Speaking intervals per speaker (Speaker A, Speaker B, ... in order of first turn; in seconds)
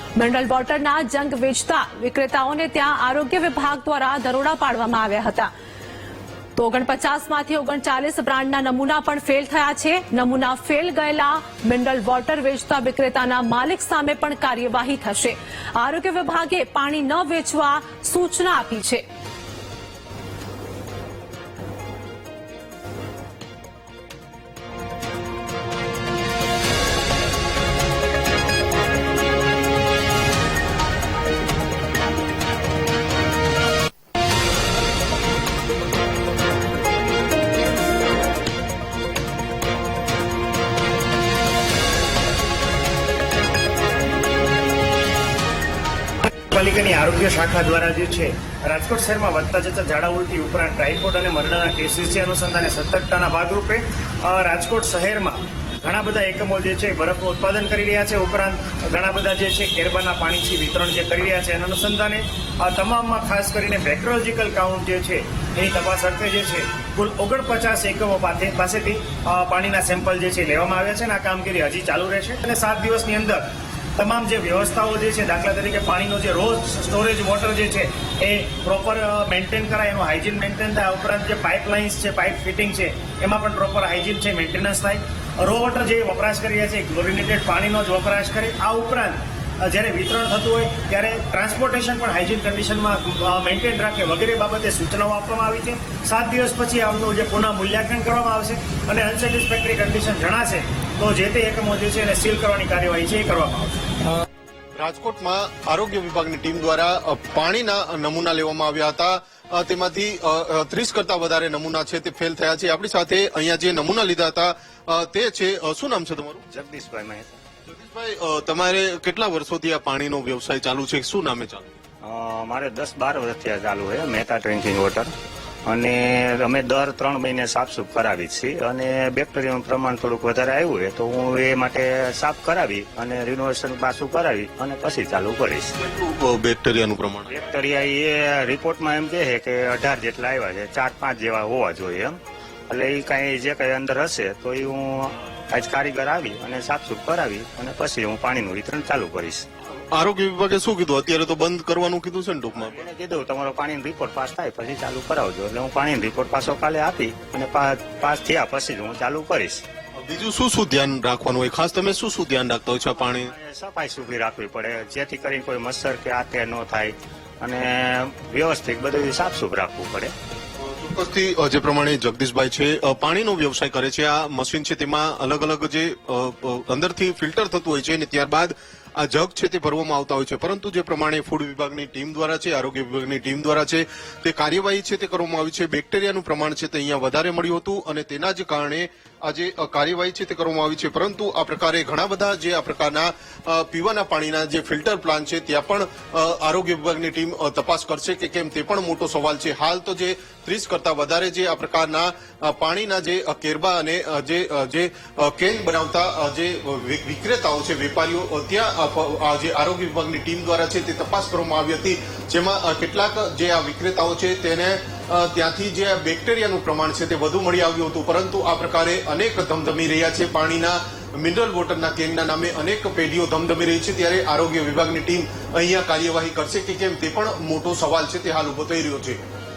Speaker A: 0.2-5.5, 6.6-19.0
Speaker B: 46.2-73.4, 74.0-103.9
Speaker C: 104.8-116.5, 117.7-121.7, 135.8-137.3, 149.9-152.8, 160.0-163.3, 170.6-229.2
Speaker D: 116.5-117.4, 122.0-125.1, 125.7-135.8, 137.3-149.5, 152.6-159.6, 162.9-170.1